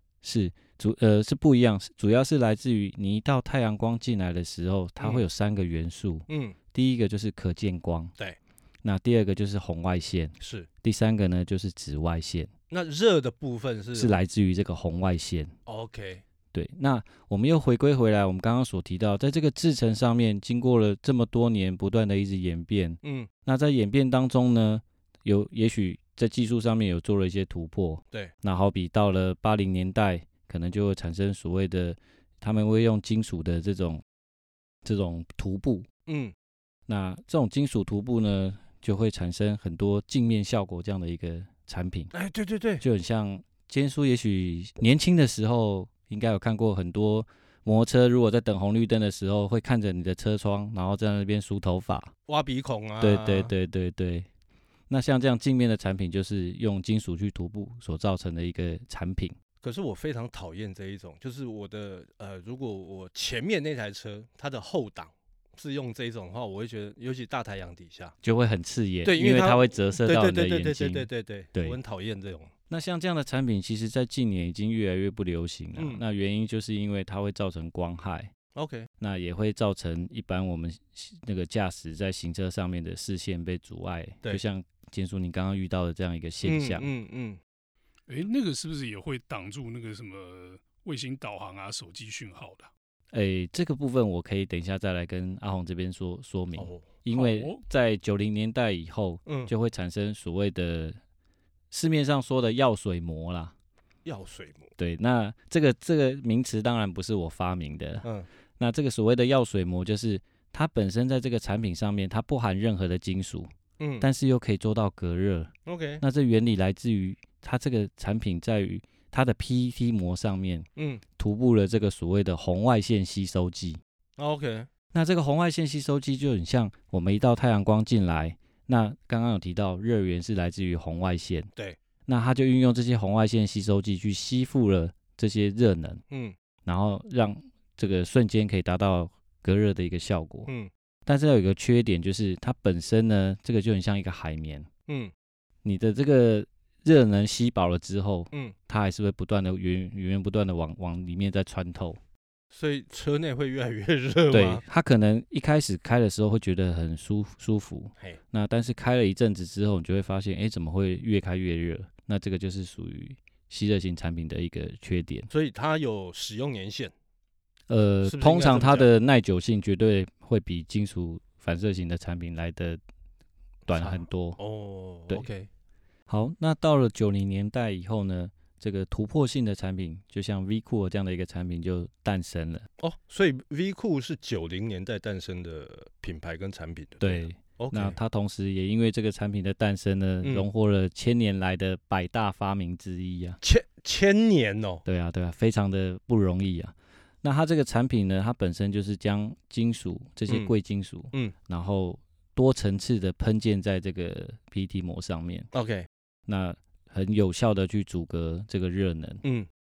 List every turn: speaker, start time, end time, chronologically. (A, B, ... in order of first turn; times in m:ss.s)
0:00.2-0:08.1 A
0:05.0-0:05.2 B
0:06.3-0:06.6 B
0:08.8-0:12.5 A
0:10.4-0:10.7 B
0:12.7-0:14.2 B
0:14.0-0:15.5 A
0:15.7-0:16.2 B
0:16.5-0:34.0 A
0:23.0-0:23.3 B
0:34.8-0:35.9 A
0:36.1-0:36.3 B
0:36.9-0:42.1 A
0:42.1-0:42.8 B
0:42.8-0:52.1 A
0:52.3-0:53.5 B
0:53.0-0:54.3 A
0:54.9-0:59.3 A
0:59.6-1:08.2 B
1:08.2-1:11.8 A
1:09.0-1:12.5 B
1:12.7-1:18.3 A
1:15.8-1:16.0 B
1:18.6-1:18.9 B
1:19.0-1:26.9 A
1:26.4-1:27.4 B
1:28.1-1:32.7 C
1:33.1-1:41.0 A
1:36.6-1:36.9 B
1:37.1-1:37.6 C
1:39.2-1:39.5 B
1:41.7-1:43.5 A
1:44.0-1:44.7 B
1:44.8-1:53.5 A
1:53.8-1:54.1 B
1:54.0-2:03.8 A
1:55.7-1:56.0 B
2:00.8-2:01.0 B
2:04.2-2:04.7 B
2:04.9-2:11.5 A
2:12.1-2:16.0 A
2:16.1-2:16.4 B
2:16.6-2:20.5 A
2:21.1-2:24.7 A
2:25.6-2:32.0 A
2:32.5-2:34.6 B
2:34.3-2:45.3 A
2:45.3-2:46.9 B
2:47.7-2:52.8 A
2:48.0-2:48.9 B
2:53.7-2:54.4 A
2:53.7-2:55.5 B
2:56.1-3:02.7 A
3:02.8-3:08.0 B
3:07.0-3:13.4 A
3:13.4-3:14.8 B
3:14.9-3:25.5 A
3:20.3-3:20.5 B
3:25.5-3:25.9 B
3:26.3-3:29.2 A